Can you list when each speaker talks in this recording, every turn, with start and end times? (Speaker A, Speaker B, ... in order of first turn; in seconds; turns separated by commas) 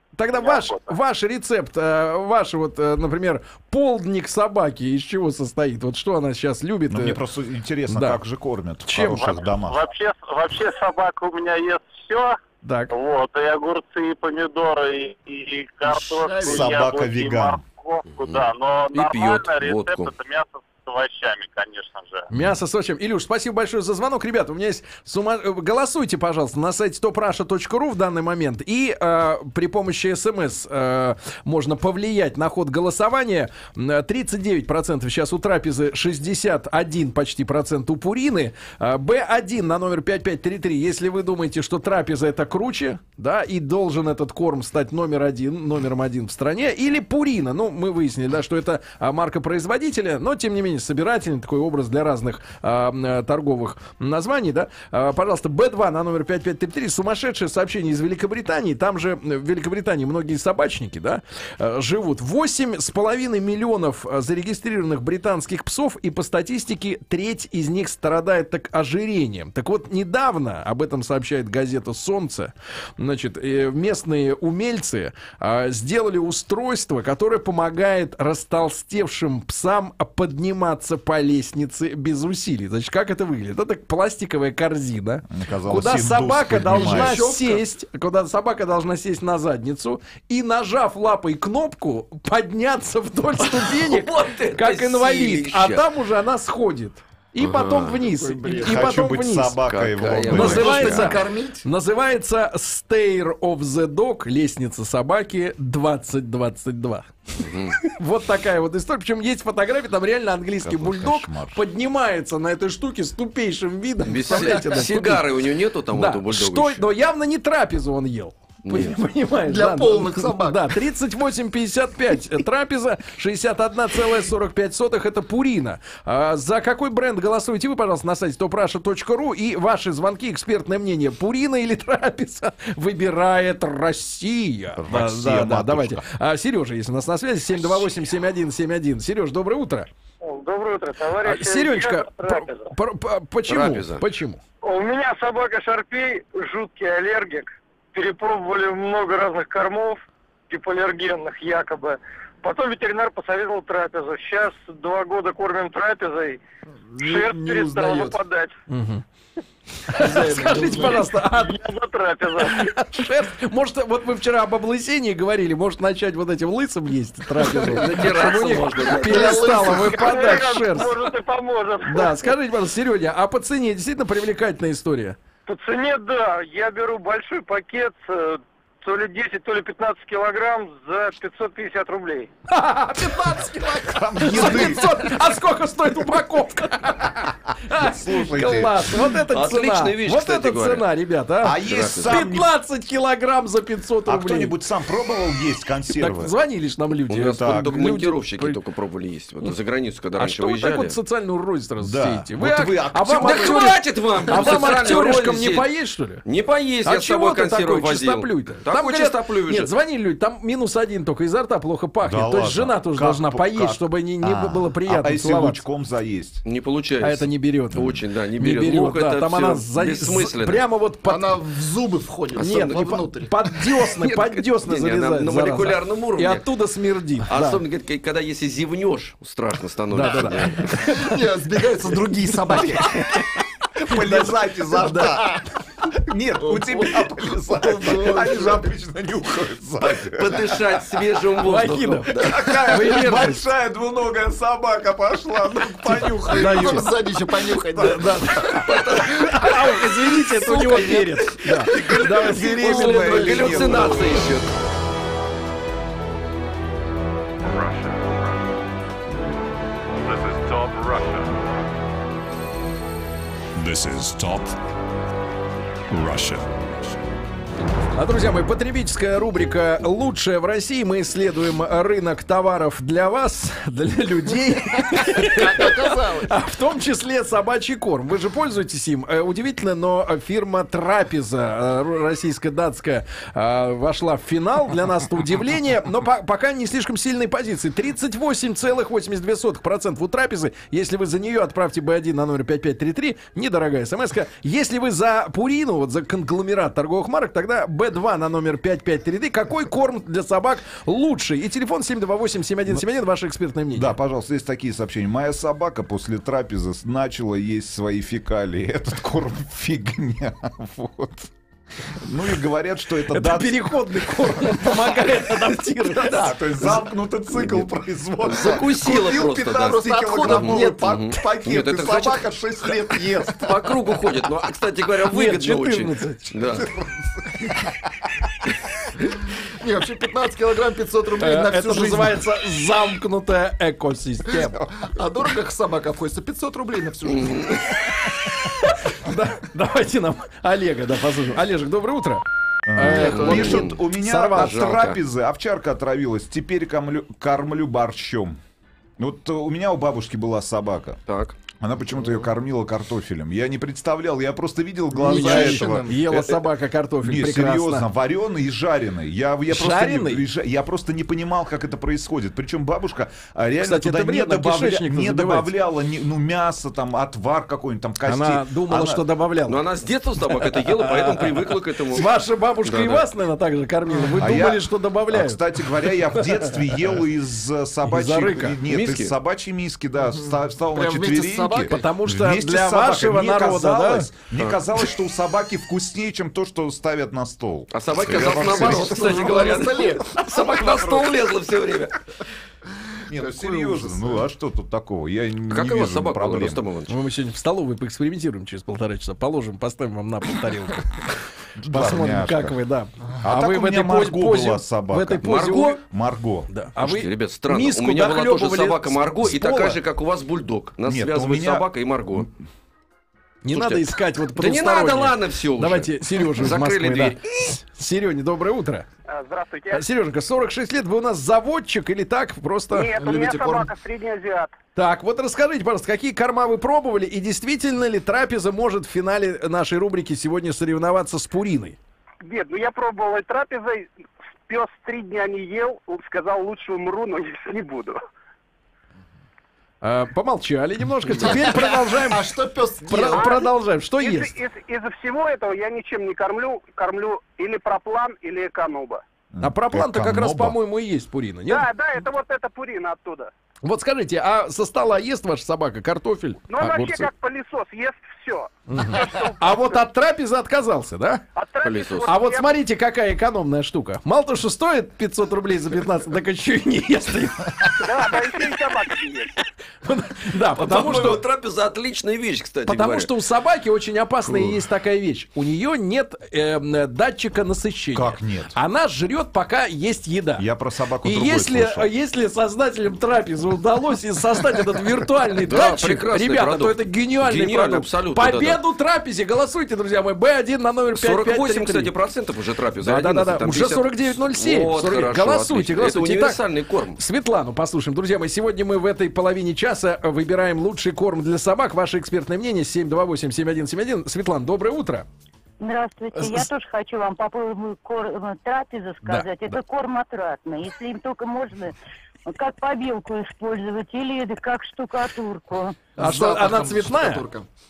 Speaker A: 0.1-7.2, Speaker B: 0.3-0.9, Speaker C: 6.9-9.8, Speaker A: 7.9-8.2, Speaker A: 8.8-9.3, Speaker B: 9.1-12.4, Speaker A: 12.6-12.9, Speaker B: 12.9-22.3, Speaker D: 15.8-16.8, Speaker C: 16.4-17.6, Speaker E: 18.2-20.1, Speaker A: 22.3-99.6, Speaker C: 85.3-87.3, Speaker D: 86.6-87.6, Speaker E: 93.4-95.8, Speaker E: 97.4-98.0, Speaker D: 98.0-98.9, Speaker C: 98.6-101.1, Speaker E: 99.7-101.2, Speaker D: 100.3-101.7, Speaker A: 100.3-107.1, Speaker E: 107.4-107.7, Speaker A: 107.8-115.2, Speaker C: 110.6-111.6, Speaker E: 114.0-116.9, Speaker A: 115.9-139.9, Speaker E: 118.6-118.9, Speaker D: 119.4-120.7, Speaker C: 134.8-136.0, Speaker F: 140.2-142.7, Speaker A: 141.2-144.4, Speaker E: 143.5-144.0, Speaker F: 144.6-156.4, Speaker D: 156.9-158.2, Speaker F: 157.0-158.6, Speaker A: 158.7-159.0, Speaker A: 159.9-161.6, Speaker D: 159.9-161.2, Speaker F: 161.2-162.6, Speaker A: 162.4-171.0, Speaker D: 167.4-167.9, Speaker E: 167.6-169.6, Speaker D: 168.9-170.5, Speaker F: 169.9-172.3, Speaker A: 171.8-175.2, Speaker F: 175.4-182.3, Speaker A: 182.5-194.5, Speaker C: 183.8-185.0, Speaker D: 184.2-184.8, Speaker C: 187.7-188.7, Speaker E: 189.3-190.9, Speaker C: 191.4-192.5, Speaker E: 191.6-192.2, Speaker C: 194.1-196.3, Speaker A: 196.0-198.6, Speaker E: 197.1-201.0, Speaker C: 197.4-197.8, Speaker A: 200.2-206.2, Speaker C: 201.8-203.7, Speaker E: 203.2-205.7, Speaker C: 204.3-204.9, Speaker E: 206.2-209.7, Speaker A: 206.8-215.6, Speaker C: 212.0-216.4, Speaker E: 216.4-220.7, Speaker A: 217.0-221.3, Speaker D: 221.0-223.3, Speaker E: 222.3-222.9, Speaker A: 222.4-227.6, Speaker E: 223.8-226.5, Speaker E: 227.2-230.7, Speaker A: 229.9-231.2, Speaker D: 231.0-232.9, Speaker A: 231.9-233.3, Speaker C: 232.6-232.9, Speaker A: 233.8-235.1, Speaker C: 233.8-240.8, Speaker D: 235.1-235.4, Speaker D: 236.4-238.7, Speaker E: 240.1-242.4, Speaker A: 241.4-243.4, Speaker C: 242.2-247.1, Speaker D: 246.1-248.5, Speaker A: 246.3-246.9, Speaker C: 247.8-248.2, Speaker A: 247.8-253.6, Speaker E: 248.6-254.5, Speaker D: 251.7-254.2, Speaker C: 252.2-254.2, Speaker G: 257.4-258.6, Speaker G: 260.0-261.6, Speaker G: 263.6-264.5, Speaker G: 265.9-267.0, Speaker A: 267.9-303.9, Speaker D: 274.9-276.3, Speaker C: 303.7-311.3, Speaker C: 311.9-313.6, Speaker A: 313.1-316.3, Speaker E: 315.9-316.3, Speaker C: 316.1-323.7, Speaker E: 318.2-326.7, Speaker D: 319.6-321.0, Speaker A: 325.1-326.3, Speaker C: 326.5-327.6, Speaker D: 329.6-332.2, Speaker A: 331.2-334.6, Speaker D: 334.3-337.6, Speaker E: 337.0-337.6, Speaker A: 338.4-344.6, Speaker C: 342.7-348.4, Speaker D: 342.8-343.5, Speaker E: 342.8-345.0, Speaker C: 349.0-351.0, Speaker E: 351.1-351.4, Speaker C: 351.6-356.4, Speaker D: 352.0-352.3, Speaker D: 354.9-356.2, Speaker A: 355.1-357.9, Speaker C: 357.0-369.0, Speaker A: 359.5-360.2, Speaker A: 363.6-365.5, Speaker A: 368.0-369.6, Speaker E: 369.5-373.1, Speaker A: 370.4-371.3, Speaker A: 371.9-375.4, Speaker C: 374.2-389.6, Speaker A: 376.2-376.8, Speaker A: 377.9-378.6, Speaker E: 378.7-379.1, Speaker D: 380.7-381.8, Speaker A: 381.7-384.1, Speaker E: 387.7-392.0, Speaker D: 388.1-390.0, Speaker A: 389.0-389.3, Speaker C: 393.1-396.6, Speaker D: 393.1-394.2, Speaker E: 395.5-396.9, Speaker A: 396.9-401.1, Speaker C: 401.6-402.6, Speaker A: 401.7-405.8, Speaker C: 403.2-406.5, Speaker E: 405.2-405.8, Speaker A: 406.5-409.8, Speaker E: 406.8-412.3, Speaker C: 410.8-412.3, Speaker A: 413.4-418.9, Speaker E: 413.5-417.2, Speaker F: 419.1-419.8, Speaker A: 419.7-422.9, Speaker F: 422.7-424.5, Speaker D: 422.9-423.7, Speaker A: 424.8-431.8, Speaker F: 432.2-433.9, Speaker F: 434.5-438.0, Speaker A: 439.8-442.3, Speaker D: 441.1-443.4, Speaker A: 442.8-444.3, Speaker F: 443.1-443.4, Speaker F: 444.0-449.0, Speaker C: 449.3-450.6, Speaker A: 449.4-451.7, Speaker F: 451.5-453.3, Speaker A: 453.6-457.1, Speaker F: 456.5-459.8, Speaker A: 458.7-461.2, Speaker F: 461.3-462.5, Speaker E: 461.6-462.2, Speaker A: 462.0-468.2, Speaker F: 467.8-469.3, Speaker A: 469.8-471.2, Speaker E: 470.6-473.1, Speaker A: 472.7-480.4, Speaker E: 474.3-474.6, Speaker C: 477.9-478.6, Speaker C: 480.4-481.9, Speaker A: 481.0-491.9, Speaker E: 485.5-488.6, Speaker E: 490.9-497.0, Speaker A: 492.8-496.4, Speaker A: 496.9-505.1, Speaker H: 505.6-511.7, Speaker A: 506.1-506.4, Speaker A: 509.0-509.6, Speaker H: 512.3-515.8, Speaker D: 515.9-517.5, Speaker A: 516.0-517.2